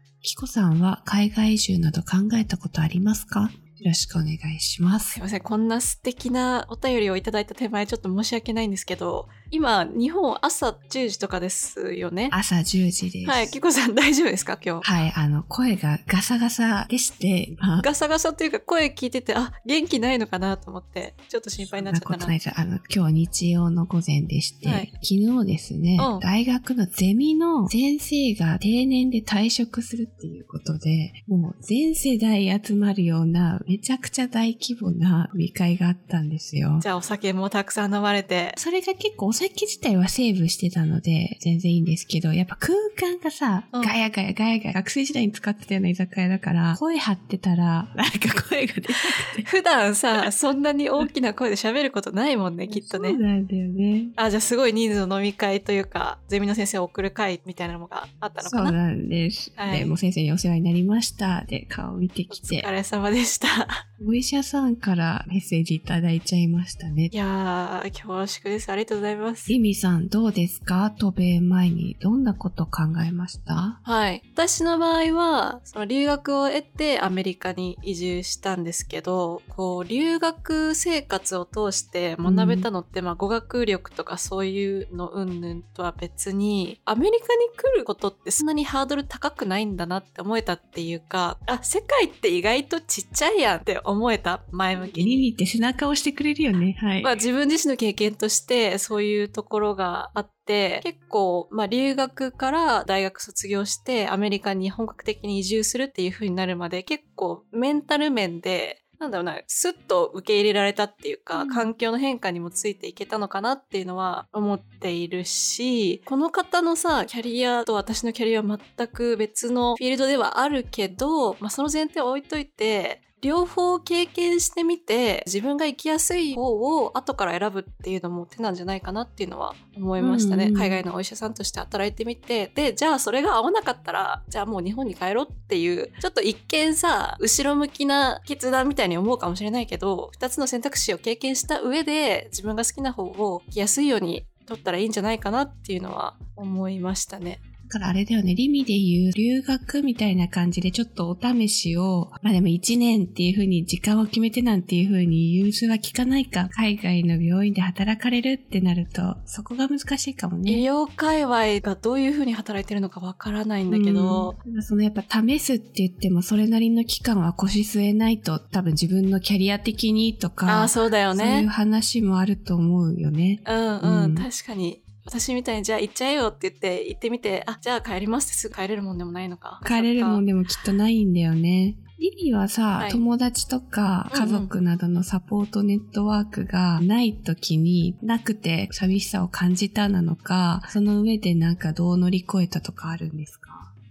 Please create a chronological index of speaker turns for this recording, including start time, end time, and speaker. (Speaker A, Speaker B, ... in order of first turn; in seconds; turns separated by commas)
Speaker A: 0.2-5.2, Speaker B: 5.1-12.3, Speaker A: 12.3-13.6, Speaker B: 13.2-14.9, Speaker A: 14.8-17.9, Speaker B: 17.8-22.3, Speaker A: 21.7-36.9, Speaker B: 26.0-26.2, Speaker B: 36.8-38.6, Speaker A: 38.6-49.5, Speaker B: 49.0-53.2, Speaker A: 52.7-54.1, Speaker B: 54.2-58.8, Speaker A: 58.4-62.7, Speaker B: 59.6-60.0, Speaker B: 62.3-63.8, Speaker A: 64.0-67.1, Speaker B: 67.1-69.5, Speaker A: 69.5-73.8, Speaker B: 73.8-95.3, Speaker A: 82.2-82.7, Speaker A: 94.8-97.2, Speaker B: 97.0-147.4, Speaker A: 111.3-111.7, Speaker A: 130.0-130.8, Speaker A: 147.7-160.6, Speaker B: 160.5-164.3, Speaker A: 163.7-174.3, Speaker B: 170.5-171.5, Speaker B: 173.4-180.2, Speaker A: 179.6-193.7, Speaker B: 182.8-183.0, Speaker B: 184.1-184.5